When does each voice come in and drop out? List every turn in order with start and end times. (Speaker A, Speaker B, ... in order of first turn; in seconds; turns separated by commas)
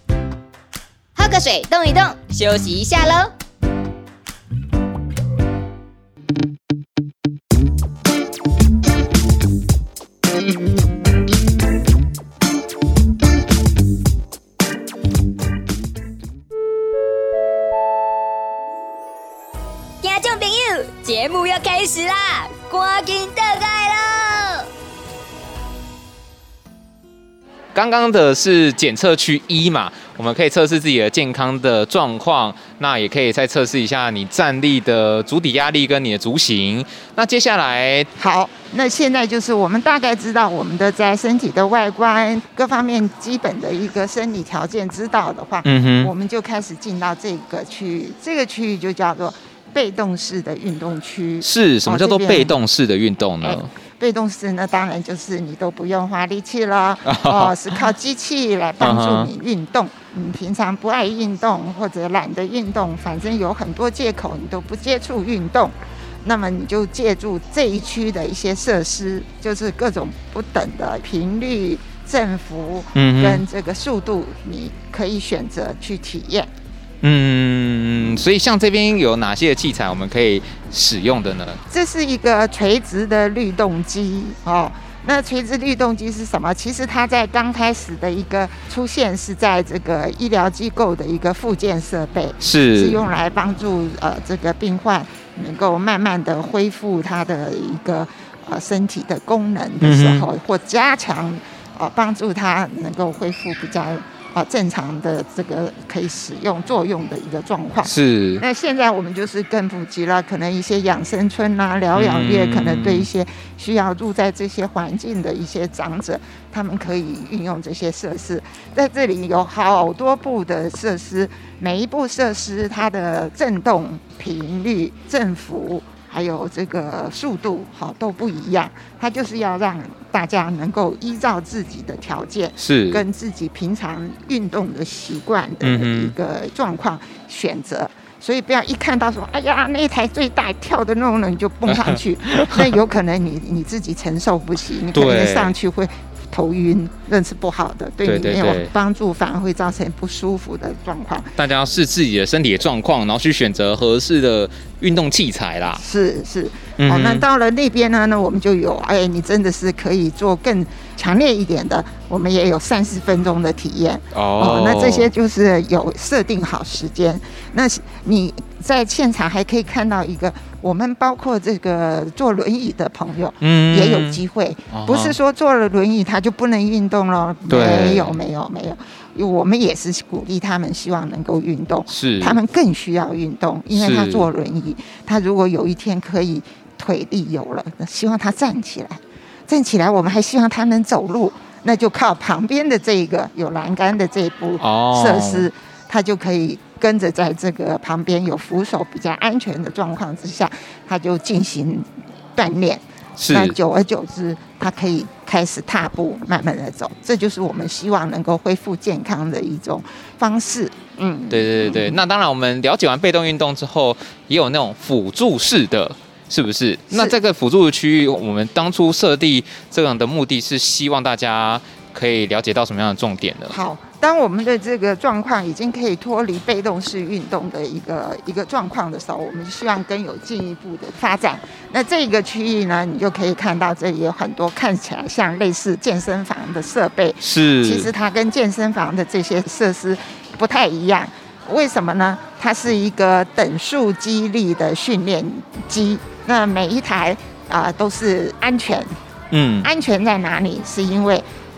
Speaker A: 1.2-3.3, Speaker A: 20.0-24.7, Speaker B: 27.7-38.1, Speaker C: 38.2-52.5, Speaker B: 45.6-46.1, Speaker B: 51.4-53.7, Speaker C: 53.4-76.5, Speaker B: 57.1-57.6, Speaker B: 58.8-59.3, Speaker B: 73.0-73.5, Speaker B: 77.0-81.6, Speaker C: 81.7-151.3, Speaker B: 92.4-93.0, Speaker B: 99.8-100.3, Speaker B: 107.8-108.4, Speaker B: 112.0-113.1, Speaker B: 132.6-133.0, Speaker B: 135.6-136.1, Speaker B: 141.7-142.7, Speaker B: 144.9-145.5, Speaker B: 148.0-148.7, Speaker B: 151.4-155.8, Speaker C: 155.8-212.0, Speaker B: 156.8-157.3, Speaker B: 164.1-165.1, Speaker B: 173.4-174.2, Speaker B: 174.7-175.2, Speaker B: 177.5-178.2, Speaker B: 181.9-182.4, Speaker B: 183.7-184.3, Speaker B: 194.6-195.5, Speaker B: 203.2-203.6, Speaker B: 211.3-223.6, Speaker C: 216.9-217.2, Speaker C: 223.5-248.9, Speaker B: 237.2-237.9, Speaker B: 249.3-249.7, Speaker C: 249.6-251.2